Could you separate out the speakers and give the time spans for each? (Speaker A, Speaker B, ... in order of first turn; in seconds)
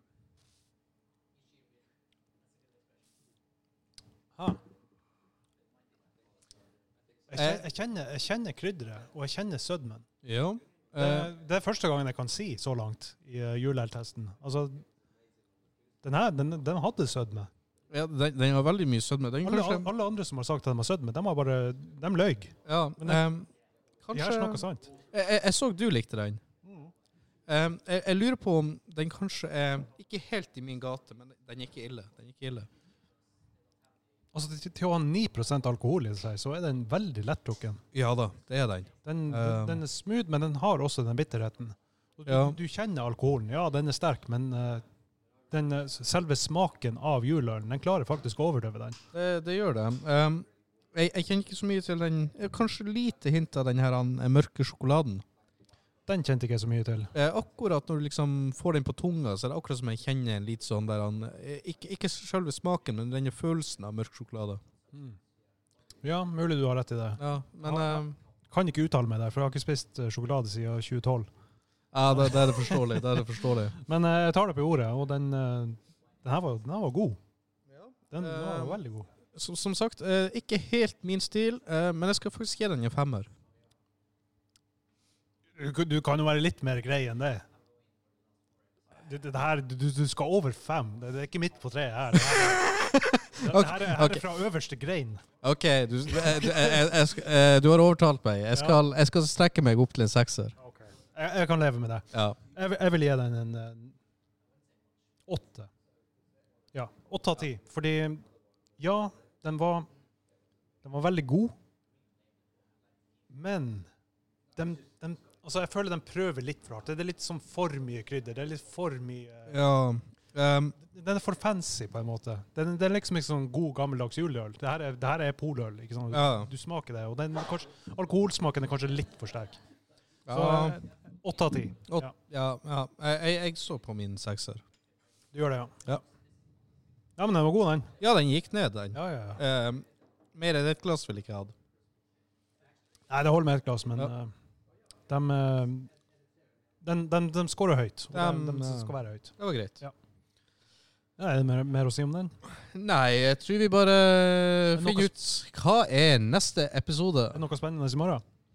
Speaker A: 7.3-10.1, 10.9-14.8, 16.0-17.5, 19.4-23.3, 24.1-24.9, 26.6-26.9, 34.3-37.8, 39.0-44.8, 45.5-49.0, 56.1-57.1, 64.9-65.2, 66.0-71.3, 72.1-73.0, 73.8-77.2, 78.1-79.1, 85.5-87.4, 89.0-92.8, 93.3-95.2, 96.1-96.8, 98.5-98.8, 100.6-103.9, 105.3-105.7, 106.7-108.2, 108.8-109.9, 110.8-111.5, 113.3-113.9, 114.5-119.6, 120.8-129.6, 130.3-132.1, 135.3-135.8, 137.2-137.9, 138.9-139.4, 143.1-144.3, 145.1-145.9, 146.8-149.9, 151.2-152.3, 154.7-155.1, 157.3-158.2
Speaker B: 7.3-7.6, 10.2-11.3, 17.9-19.9, 22.6-23.5, 24.0-26.4, 27.5-32.7, 37.9-39.8, 42.3-42.6, 49.1-55.2, 57.1-64.6, 67.2-68.2, 71.9-73.8, 77.7-78.8, 79.3-83.3, 92.6-94.2, 95.4-100.5, 102.1-102.4, 119.5-120.8, 126.1-126.5, 130.3-130.8, 131.9-134.6, 138.0-141.5, 148.1-149.8, 152.6-157.4